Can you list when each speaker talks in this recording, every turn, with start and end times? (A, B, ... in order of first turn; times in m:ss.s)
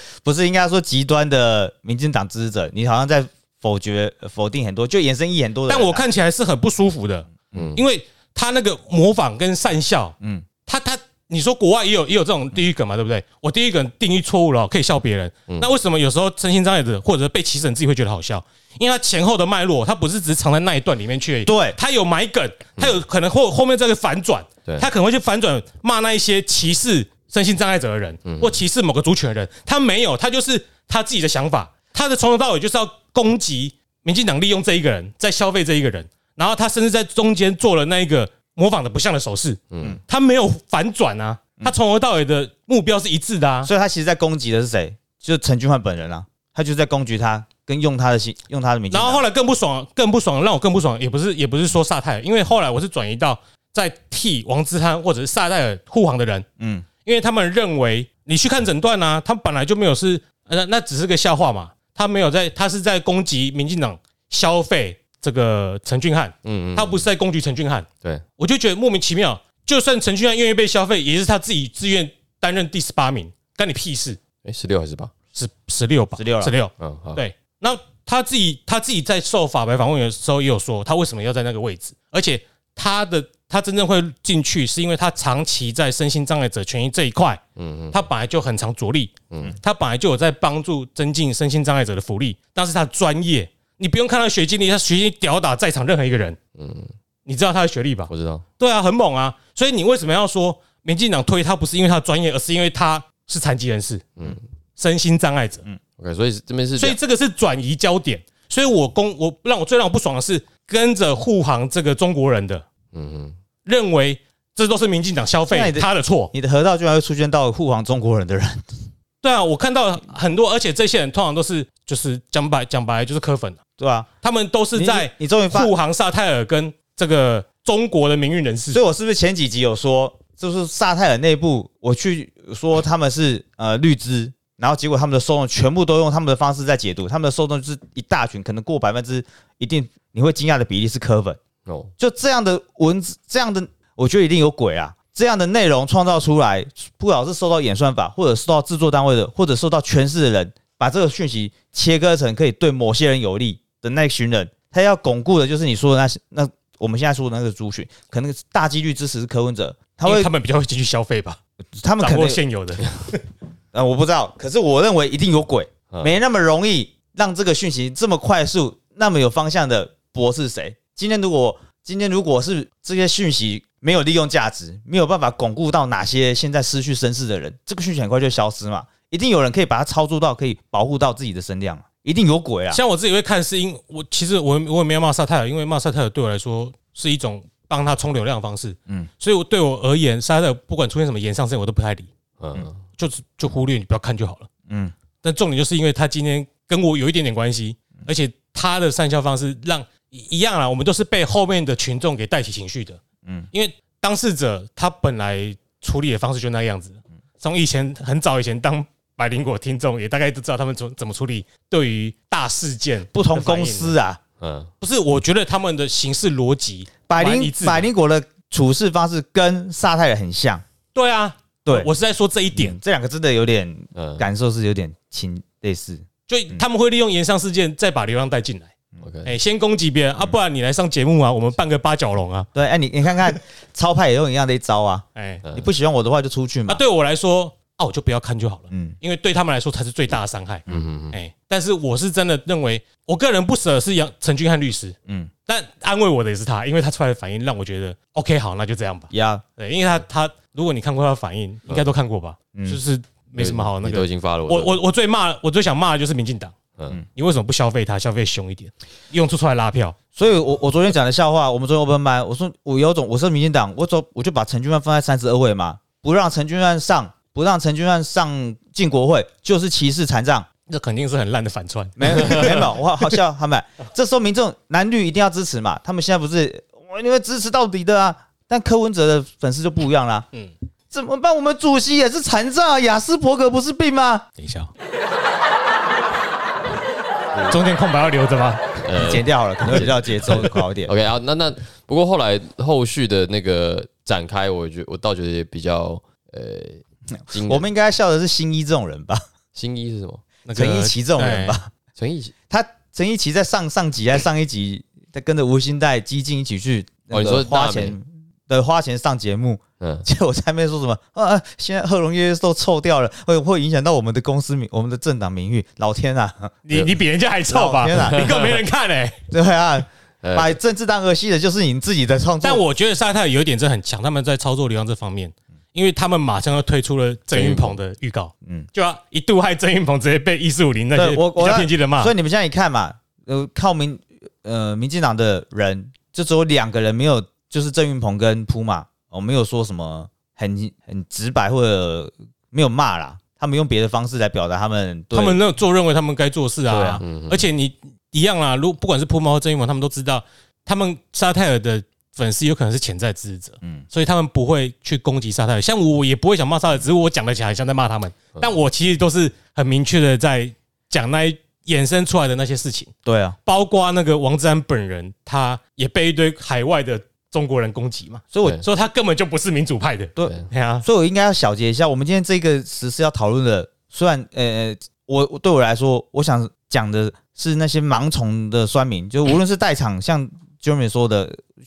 0:00.2-0:06.0 A
0:05.7-0:43.7 B
0:07.5-0:07.8 C
0:21.4-0:21.8 A
0:28.2-0:28.6 C
0:39.7-0:40.0 C
0:43.6-0:49.2 A
0:48.9-0:56.4 B
0:56.6-0:56.9 A
0:57.0-1:07.9 B
1:06.4-1:07.0 C
1:08.4-1:14.2 B
1:14.4-1:15.1 C
1:15.3-1:27.4 B
1:16.2-1:16.5 A
1:16.8-1:17.2 C
1:27.6-1:28.0 C
1:27.9-1:36.4 B
1:36.5-1:36.9 C
1:37.2-1:44.1 B
1:38.1-1:38.4 C
1:44.8-1:45.6 B
1:46.0-1:47.0 C
1:46.8-1:52.6 B
1:52.9-1:53.3 C
1:53.6-1:56.3 B
1:55.5-1:58.6 A
1:59.2-2:03.6 B
2:03.8-2:04.1 A
2:04.2-2:08.8 B
2:04.7-2:05.7 A
2:08.7-2:21.4 A
2:21.6-2:21.9 C
2:22.0-2:40.3 A
2:40.0-2:41.4 B
2:41.8-2:42.4 A
2:42.0-2:43.2 B
2:43.7-3:02.8 A
3:02.7-3:12.1 B
3:12.4-3:12.8 C
3:13.0-3:14.5 B
3:14.7-3:14.9 A
3:15.2-3:23.0 B
3:23.5-3:34.0 B
3:33.1-3:34.2 A
3:34.4-3:34.7 C
3:34.8-3:37.9 B
3:37.1-3:40.6 A
3:40.9-3:42.8 B
3:42.6-3:46.6 A
3:43.9-3:44.2 C
3:46.3-3:48.7 B
3:49.0-3:49.3 C
3:49.2-3:52.5 B
3:52.5-3:56.8 A
3:55.1-3:55.4 B
3:55.4-3:55.7 C
3:56.7-4:05.0 B
4:00.7-4:01.2 C
4:05.5-4:16.5 B
4:09.1-4:09.4 A
4:13.4-4:14.8 C
4:17.1-4:20.0 B
4:20.1-4:30.5 A
4:30.7-4:32.7 B
4:32.0-4:40.3 A
4:40.9-4:44.2 A
4:44.4-4:44.7 B
4:47.5-4:48.6 B
4:48.8-4:57.7 C
4:49.0-4:50.9 A
4:57.1-4:59.2 A
4:59.5-5:00.2 C
5:00.4-5:01.6 B
5:00.5-5:01.7 A
5:02.0-5:02.3 C
5:02.5-5:16.5 A
5:07.1-5:08.0 C
5:09.8-5:10.0 C
5:16.6-5:19.2 B
5:17.5-5:18.3 A
5:18.1-5:18.5 C
5:19.3-5:22.6 A
5:20.2-5:20.6 C
5:22.4-5:32.1 B
5:27.3-5:27.8 C
5:30.9-5:45.4 A
5:45.1-6:02.9 B
5:46.7-5:47.0 A
5:47.0-5:47.5 C
6:03.0-6:03.4 A
6:03.4-6:10.8 B
6:08.3-6:08.6 A
6:10.2-6:21.4 A